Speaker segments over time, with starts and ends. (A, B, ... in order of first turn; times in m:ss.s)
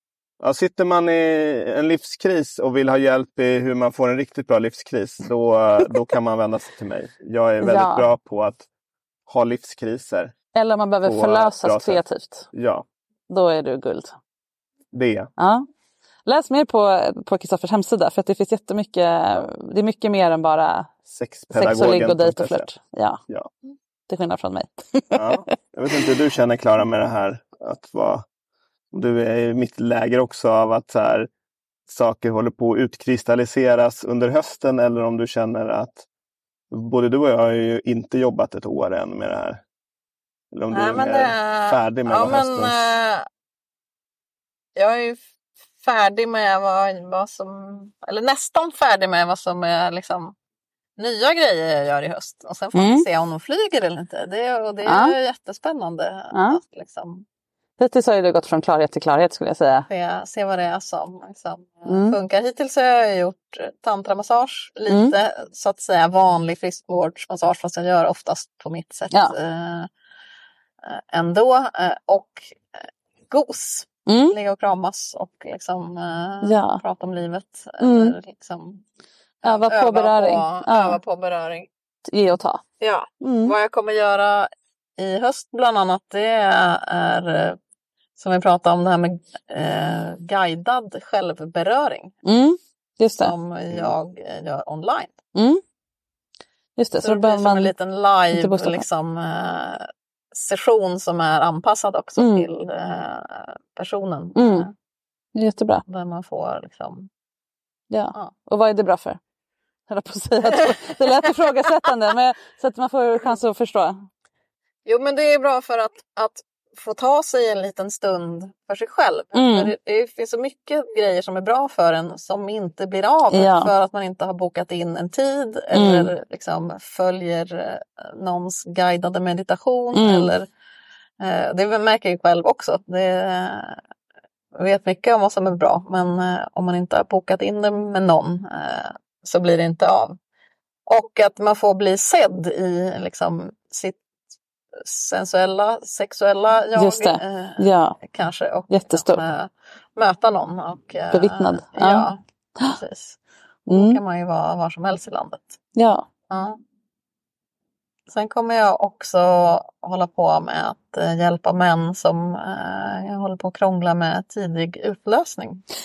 0:00.4-0:08.6 A
0:07.6-0:08.1 B
0:09.3-0:10.3 A
0:10.5-0:12.5 B
0:11.0-0:12.8 A
0:13.3-0:14.1 B
0:14.9-0:15.3 A
0:15.4-0:15.6 B
0:16.2-0:20.9 B
0:21.1-0:22.7 A
0:21.5-0:23.2 B
0:24.1-0:25.2 B
0:25.1-0:28.2 A
0:28.9-0:31.3 A
0:31.9-0:36.0 A
0:36.7-0:39.6 A
0:40.5-0:42.8 A
0:40.7-0:43.2 C
0:44.8-0:45.2 C
0:45.8-0:50.3 C
0:51.0-0:57.2 C
0:52.7-0:53.0 B
0:54.8-0:55.1 B
0:56.3-0:56.6 B
0:57.8-0:59.9 B
0:59.9-1:09.9 C
1:01.9-1:02.2 B
1:04.9-1:05.1 B
1:10.8-1:12.6 C
1:13.3-1:18.8 C
1:14.1-1:14.4 B
1:16.4-1:16.8 B
1:17.8-1:18.1 B
1:19.4-1:21.7 C
1:19.4-1:21.0 B
1:22.1-1:22.6 B
1:22.8-1:27.6 C
1:23.2-1:23.5 B
1:28.2-1:32.1 C
1:32.2-1:33.3 B
1:33.2-1:35.1 C
1:35.3-1:35.6 B
1:36.8-1:37.7 B
1:37.0-1:44.7 C
1:38.3-1:38.8 B
1:42.2-1:42.5 B
1:44.4-1:44.7 B
1:45.3-1:45.8 B
1:45.9-1:47.1 C
1:47.9-1:49.2 B
1:49.9-1:54.1 B
1:50.5-1:51.3 C
1:54.8-2:10.5 C
1:59.3-1:59.7 B
2:03.3-2:03.7 B
2:05.7-2:06.1 B
2:09.9-2:10.3 B
2:11.2-2:13.8 C
2:14.6-2:20.2 C
2:20.9-2:24.0 C
2:24.8-2:33.2 C
2:26.8-2:28.0 B
2:28.7-2:29.2 B
2:31.1-2:32.1 B
2:33.7-2:34.0 B
2:33.7-2:35.5 C
2:35.8-2:36.0 B
2:36.3-2:36.6 C
2:38.1-2:45.6 C